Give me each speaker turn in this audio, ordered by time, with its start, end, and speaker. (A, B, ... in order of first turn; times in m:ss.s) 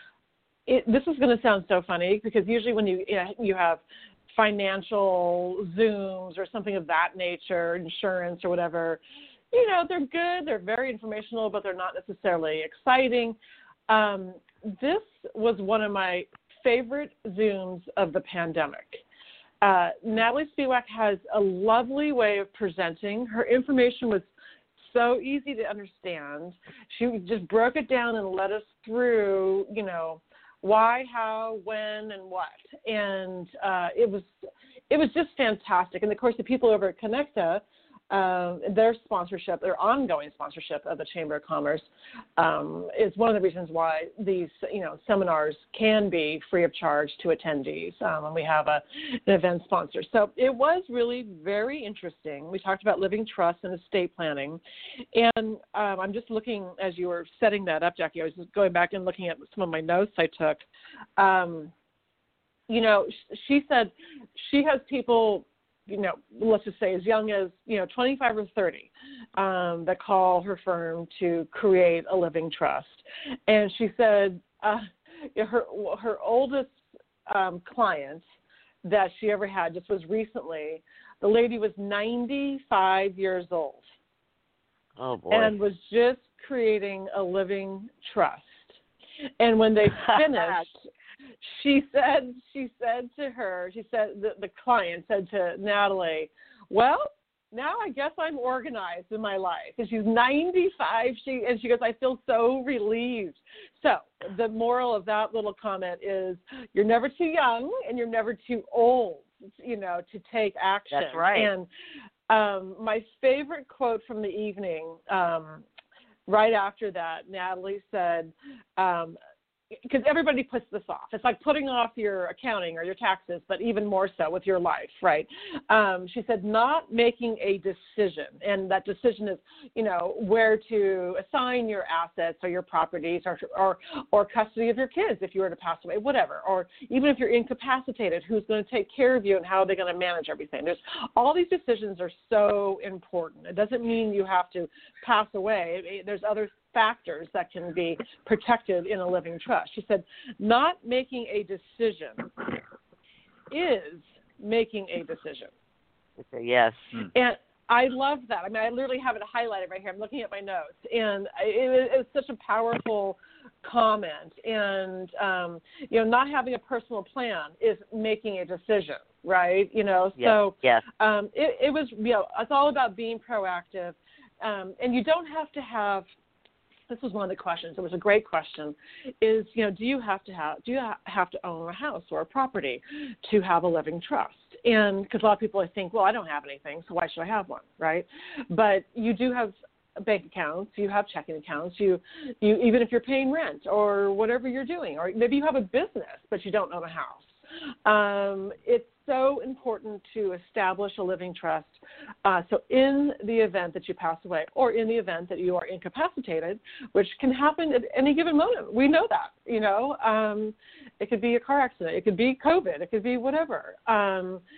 0:00.7-0:09.0 A
0:09.5-0:13.4 A
0:13.9-0:19.0 A
0:19.6-0:34.3 A
0:34.9-0:54.6 A
0:55.1-1:00.6 A
1:01.2-1:01.7 A
1:02.7-1:18.2 A
1:18.8-1:23.9 A
1:25.0-1:25.6 B
1:25.3-1:28.8 A
1:29.4-1:30.8 A
1:29.9-1:30.7 B
1:31.4-1:51.7 A
1:50.9-1:51.5 B
1:52.3-1:55.6 A
1:56.3-1:59.2 A
1:59.7-2:32.3 A
2:33.5-2:35.5 A
2:36.2-2:37.0 B
2:37.1-2:56.1 A
2:50.2-2:50.8 B
2:56.9-3:17.3 A
3:17.9-3:34.4 A